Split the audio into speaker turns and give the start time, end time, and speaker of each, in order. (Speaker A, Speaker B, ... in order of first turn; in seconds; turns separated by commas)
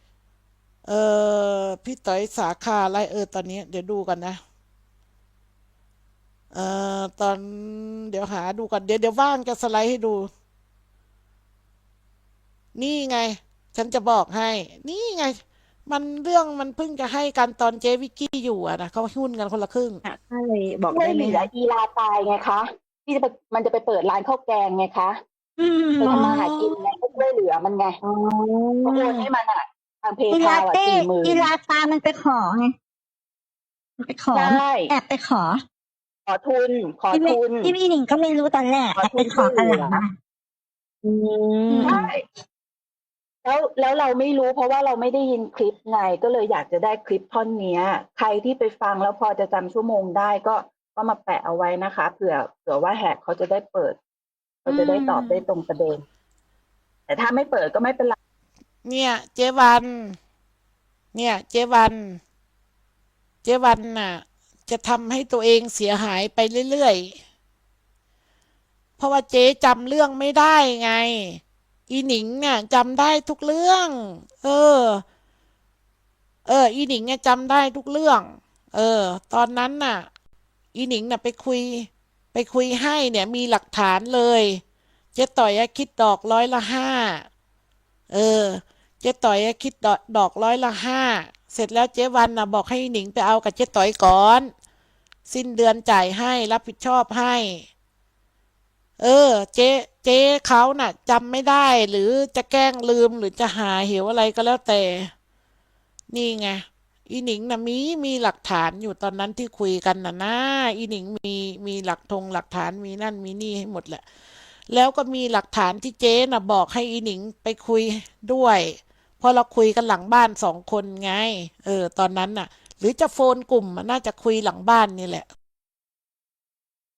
Speaker A: 0.8-4.4, Speaker A: 6.5-10.3, Speaker A: 12.8-20.0, Speaker B: 20.1-21.5, Speaker C: 20.9-25.2, Speaker B: 25.6-26.7, Speaker C: 26.0-28.0, Speaker B: 28.0-29.3, Speaker C: 28.9-31.5, Speaker B: 30.3-32.7, Speaker B: 34.0-35.6, Speaker C: 34.3-34.9, Speaker C: 36.3-37.7, Speaker B: 37.1-40.1, Speaker C: 39.0-40.0, Speaker B: 41.0-42.0, Speaker C: 41.8-42.2, Speaker C: 43.4-54.0, Speaker C: 54.6-56.0, Speaker B: 54.7-55.4, Speaker C: 57.1-58.2, Speaker A: 58.9-60.2, Speaker A: 61.1-62.2, Speaker A: 63.4-67.2, Speaker A: 69.0-75.0, Speaker A: 76.5-80.1, Speaker A: 80.7-84.6, Speaker A: 85.2-87.3, Speaker A: 88.1-94.5, Speaker A: 95.3-97.7, Speaker A: 99.0-105.1, Speaker A: 106.1-114.1, Speaker A: 114.7-125.3